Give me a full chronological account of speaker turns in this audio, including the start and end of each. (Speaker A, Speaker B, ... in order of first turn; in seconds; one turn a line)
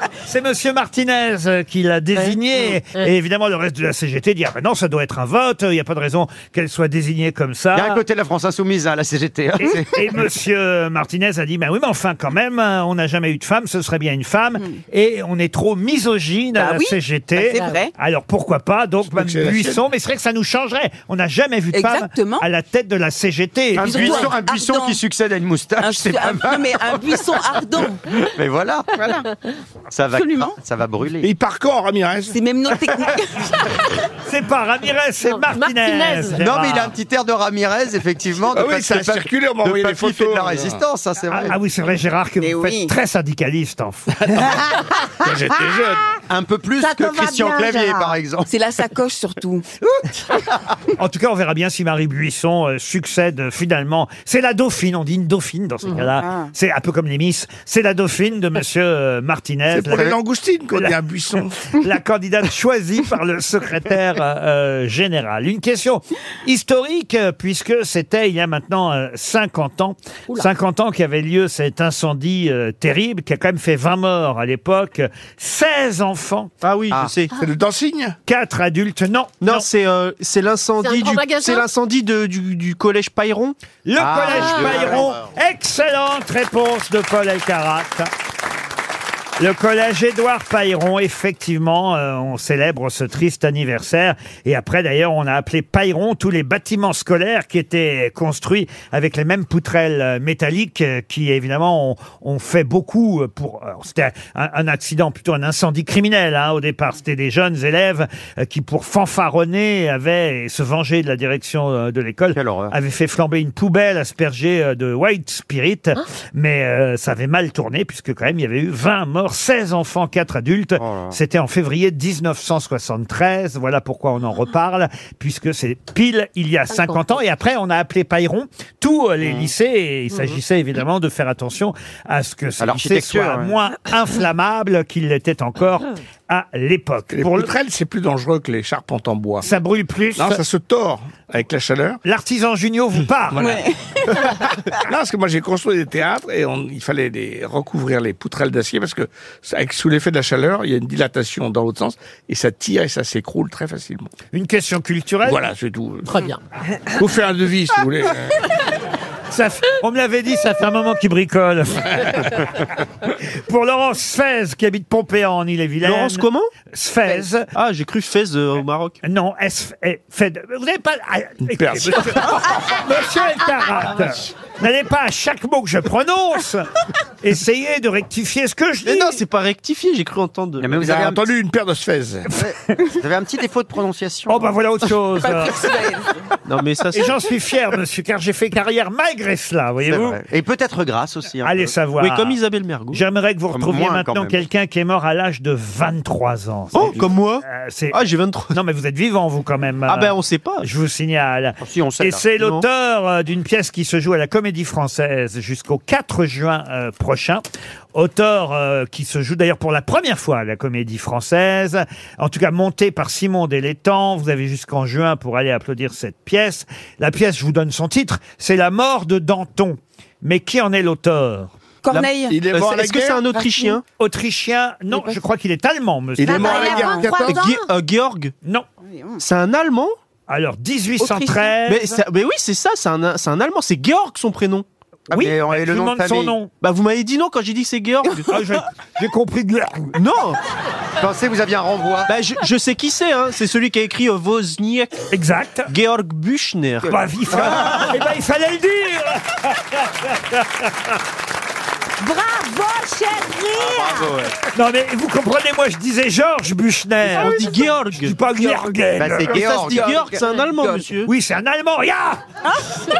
Speaker A: 0.3-8.0
Speaker B: 7.7-10.1
Speaker A: 9.6-24.3
Speaker C: 16.6-17.9
Speaker D: 17.5-17.8
Speaker E: 19.1-19.8
Speaker C: 21.7-22.4
Speaker B: 23.8-27.0
Speaker C: 23.8-25.0
Speaker C: 25.8-28.0
Speaker B: 28.3-29.0
Speaker C: 28.9-29.3
Speaker B: 29.9-31.3
Speaker C: 30.1-30.6
Speaker E: 31.2-32.4
Speaker C: 32.3-33.6
Speaker A: 34.2-36.9
Speaker D: 35.2-36.4
Speaker B: 36.4-41.5
Speaker E: 38.5-40.8
Speaker A: 41.3-44.4
Speaker C: 42.4-42.9
Speaker E: 44.2-44.6
Speaker E: 45.2-46.1
Speaker F: 45.5-45.8
Speaker B: 46.3-48.5
Speaker F: 46.8-48.1
Speaker C: 48.5-49.6
Speaker A: 51.0-60.2
Speaker C: 56.2-56.5
Speaker E: 59.7-61.5
Speaker A: 61.7-76.5
Speaker G: 76.6-77.3
Speaker E: 77.4-78.1
Speaker A: 78.3-79.7
Speaker G: 79.4-83.6
Speaker D: 80.8-81.7
Speaker A: 83.8-88.1
Speaker B: 84.0-85.3
Speaker D: 84.3-85.0
Speaker A: 89.4-137.5
Speaker B: 112.3-112.8
Speaker B: 120.8-121.2
Speaker D: 126.7-127.0
Speaker B: 129.2-129.5
Speaker B: 132.6-133.5
Speaker E: 137.1-139.4
Speaker A: 139.4-140.4
Speaker E: 140.2-142.0
Speaker A: 142.0-143.6
Speaker E: 143.3-143.6
Speaker C: 143.4-144.4
Speaker E: 144.2-154.1
Speaker A: 154.3-155.4
Speaker E: 155.3-156.2
Speaker D: 156.1-156.4
Speaker E: 156.9-158.4
Speaker A: 159.3-162.5
Speaker A: 163.4-167.5
Speaker G: 165.8-166.5
Speaker G: 167.5-169.0
Speaker A: 169.0-176.7
Speaker E: 171.5-172.6
Speaker A: 177.2-179.2
Speaker G: 178.8-180.8
Speaker B: 180.6-181.3
Speaker E: 180.7-182.3
Speaker B: 182.4-184.5
Speaker A: 184.3-185.6
Speaker C: 185.2-186.3
Speaker G: 186.5-187.1
Speaker A: 186.9-190.2
Speaker B: 189.9-191.8
Speaker A: 191.4-207.4
Speaker G: 192.0-193.0
Speaker B: 193.5-194.4
Speaker G: 196.7-198.6
Speaker G: 199.9-200.7
Speaker B: 201.6-202.2
Speaker G: 202.4-202.7
Speaker A: 207.9-221.5
Speaker C: 221.8-222.4
Speaker G: 221.9-223.8
Speaker E: 222.3-223.2
Speaker C: 223.3-223.8
Speaker A: 224.0-226.8
Speaker C: 224.9-225.2
Speaker E: 226.2-227.5
Speaker F: 226.2-227.7
Speaker C: 226.3-227.3
Speaker G: 227.3-228.3
Speaker C: 228.8-229.2
Speaker G: 229.2-229.9
Speaker A: 230.3-232.0
Speaker C: 231.0-231.5
Speaker G: 231.6-234.6
Speaker B: 235.1-236.3
Speaker A: 235.1-236.5
Speaker G: 236.6-238.4
Speaker A: 238.3-239.9
Speaker G: 239.9-240.4
Speaker B: 241.0-242.1
Speaker G: 242.1-244.9
Speaker A: 245.1-245.7
Speaker G: 245.7-246.9
Speaker A: 246.9-250.7
Speaker B: 247.3-247.9
Speaker F: 252.0-254.1
Speaker B: 253.6-254.3
Speaker A: 254.6-259.8
Speaker G: 257.1-258.6
Speaker B: 259.0-260.2
Speaker G: 259.2-261.1
Speaker C: 259.7-260.9
Speaker A: 261.1-262.2